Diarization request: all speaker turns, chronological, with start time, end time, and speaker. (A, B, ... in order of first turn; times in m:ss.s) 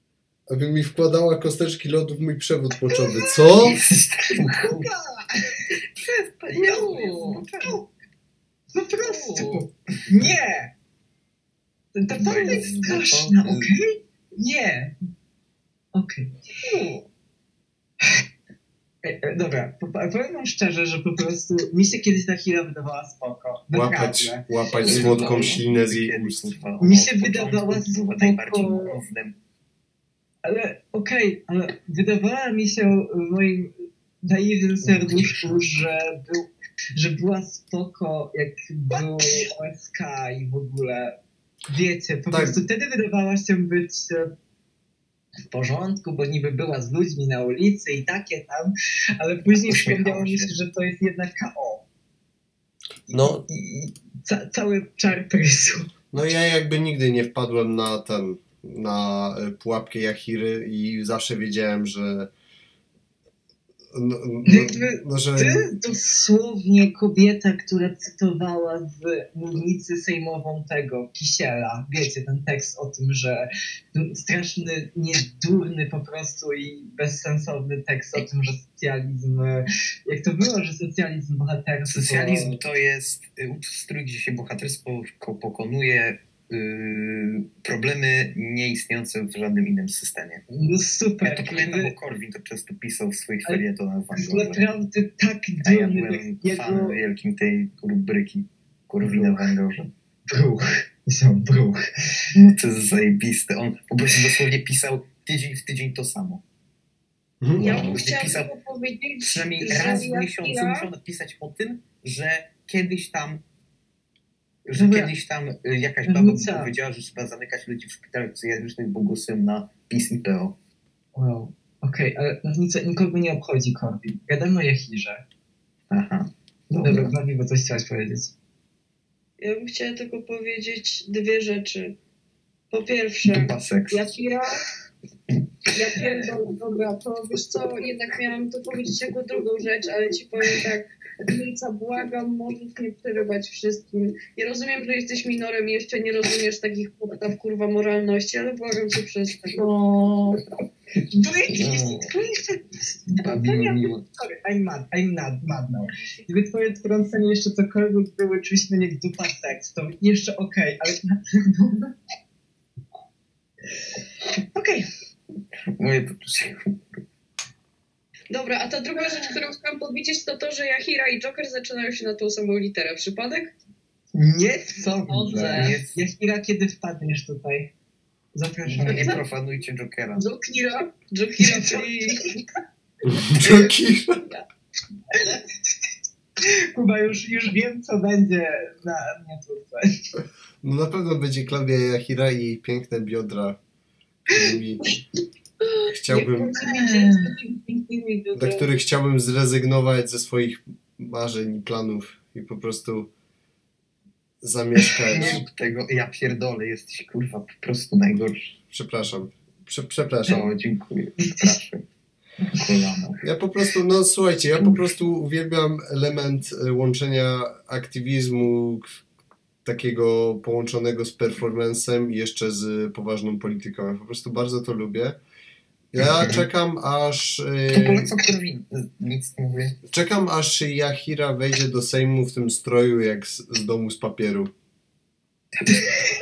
0:00.5-0:03.8 A
0:02.9-0:03.6 B
0:03.5-0:04.9 C
0:04.3-0:05.7 B
0:05.7-0:07.8 C
0:06.6-0:07.4 D
0:07.5-0:07.9 B
0:08.7-0:10.7 B
0:09.0-0:09.6 D
0:11.9-0:14.9 B
0:12.2-0:13.7 C
0:12.3-0:12.6 D
0:15.9-0:16.3 B
0:16.6-0:17.1 D
0:19.0-0:25.2 B
0:23.7-0:26.5 A
0:24.8-0:25.6 D
0:24.8-0:29.4 C
0:26.8-0:29.0 B
0:30.4-0:41.2 B
0:34.8-0:35.5 C
0:41.7-0:44.3 B
0:42.3-0:42.6 A
0:45.5-0:51.8 B
0:49.6-0:50.5 C
0:53.1-0:55.9 B
0:53.1-0:53.4 A
0:56.1-1:02.3 A
1:03.9-1:05.7 A
1:04.4-1:22.6 B
1:21.9-1:30.4 C
1:30.5-1:31.9 B
1:31.2-1:34.6 C
1:34.1-1:37.0 B
1:35.6-1:39.9 C
1:39.0-1:39.4 B
1:40.3-1:42.2 B
1:42.3-1:46.4 C
1:47.4-1:48.0 A
1:47.6-1:50.9 E
1:47.6-1:48.5 C
1:49.2-1:53.4 C
1:54.7-2:00.5 C
1:54.7-1:55.1 B
1:56.0-1:56.7 B
2:01.1-2:05.2 B
2:05.9-2:07.1 C
2:06.7-2:08.3 B
2:09.4-2:11.9 E
2:12.7-2:14.4 E
2:13.2-2:14.1 C
2:13.9-2:14.4 B
2:15.7-2:29.7 E
2:29.5-2:30.4 D
2:31.1-2:41.9 B
2:31.5-2:32.1 C
2:33.2-2:34.0 C
2:44.4-2:44.9 B
2:45.8-2:47.0 C
2:48.3-2:53.5 E
2:54.1-2:57.7 B
2:55.1-2:55.8 D
2:55.4-2:56.0 C
2:58.3-2:59.2 B
2:58.6-3:00.3 C
3:00.1-3:02.4 E
3:01.4-3:02.1 B
3:03.0-3:04.2 A
3:05.1-3:05.4 B
3:06.4-3:10.1 B
3:10.6-3:13.6 A
3:14.3-3:14.8 A
3:15.9-3:16.6 A
3:16.4-3:17.3 E
3:16.5-3:17.4 B
3:16.7-3:18.6 D
3:18.3-3:23.1 A
3:24.4-3:25.4 A
3:25.1-3:28.5 C
3:28.7-3:30.4 A
3:30.2-3:31.8 C
3:31.2-3:31.6 B
3:32.4-3:33.2 C
3:33.2-3:38.9 A
3:34.6-3:34.8 C
3:39.6-3:45.2 A
3:45.9-3:48.1 A
3:46.0-3:46.4 C
3:47.7-3:49.8 C
3:49.9-3:54.5 A
3:55.6-3:56.0 C